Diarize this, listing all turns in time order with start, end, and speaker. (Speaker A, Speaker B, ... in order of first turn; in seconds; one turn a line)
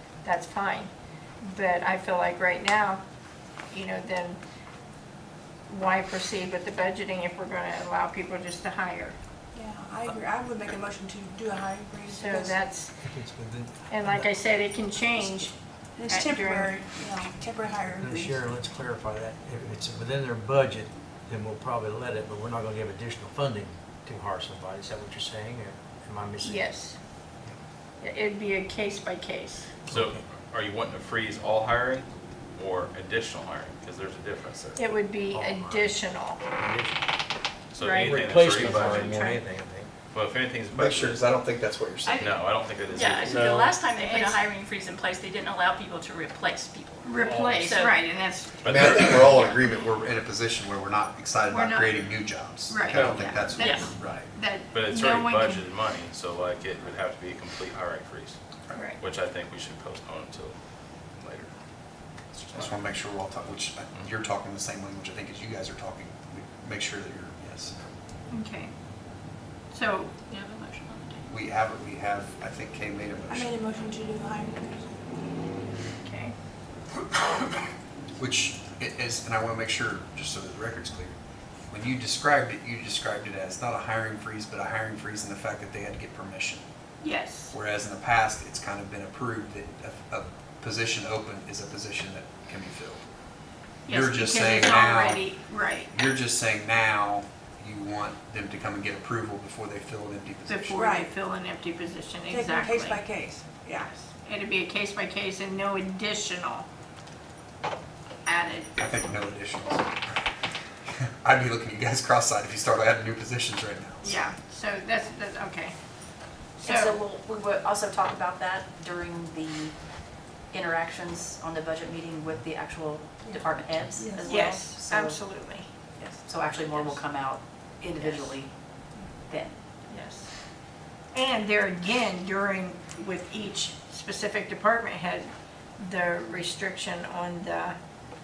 Speaker A: 0.2-0.9
Speaker A: 1.4-3.0
Speaker A: 3.7-4.4
Speaker A: 5.7-9.2
Speaker B: 9.5-12.6
Speaker A: 12.1-12.9
Speaker C: 13.0-14.3
Speaker A: 13.9-15.5
Speaker B: 15.9-18.4
Speaker A: 16.1-16.7
Speaker C: 18.0-26.7
Speaker A: 26.4-27.0
Speaker A: 28.0-29.7
Speaker C: 29.9-30.2
Speaker D: 29.9-34.8
Speaker A: 34.8-36.4
Speaker C: 35.3-36.0
Speaker C: 36.5-37.0
Speaker D: 37.7-39.1
Speaker A: 37.8-39.4
Speaker C: 37.9-39.9
Speaker D: 40.1-41.3
Speaker E: 40.7-42.4
Speaker D: 42.2-43.8
Speaker F: 42.9-48.0
Speaker C: 43.2-43.6
Speaker A: 43.9-44.4
Speaker A: 47.0-48.6
Speaker C: 47.2-47.6
Speaker D: 48.6-49.3
Speaker E: 48.6-54.3
Speaker F: 49.3-49.6
Speaker A: 51.5-52.1
Speaker A: 52.7-55.6
Speaker F: 53.6-53.9
Speaker D: 54.7-58.4
Speaker A: 58.7-59.0
Speaker D: 59.0-60.5
Speaker D: 61.2-61.5
Speaker D: 62.3-62.8
Speaker E: 62.5-67.8
Speaker A: 68.3-68.7
Speaker A: 69.7-70.2
Speaker F: 70.3-71.2
Speaker E: 71.3-73.5
Speaker B: 73.3-75.4
Speaker A: 76.0-76.3
Speaker E: 78.2-81.1
Speaker E: 81.7-86.6
Speaker A: 87.0-87.5
Speaker E: 87.5-93.0
Speaker A: 93.9-95.9
Speaker E: 93.9-95.2
Speaker E: 95.9-100.8
Speaker A: 100.5-103.0
Speaker B: 100.8-101.1
Speaker B: 102.3-104.0
Speaker A: 104.1-106.7
Speaker A: 108.2-108.7
Speaker E: 108.8-110.0
Speaker E: 110.9-114.2
Speaker A: 114.0-115.7
Speaker A: 116.6-117.0
Speaker G: 116.6-119.7
Speaker G: 120.5-125.2
Speaker B: 124.0-124.2
Speaker A: 124.2-125.7
Speaker G: 126.0-128.5
Speaker A: 126.7-127.0
Speaker A: 128.0-128.3
Speaker G: 129.3-129.6
Speaker A: 129.9-130.3
Speaker A: 131.1-137.8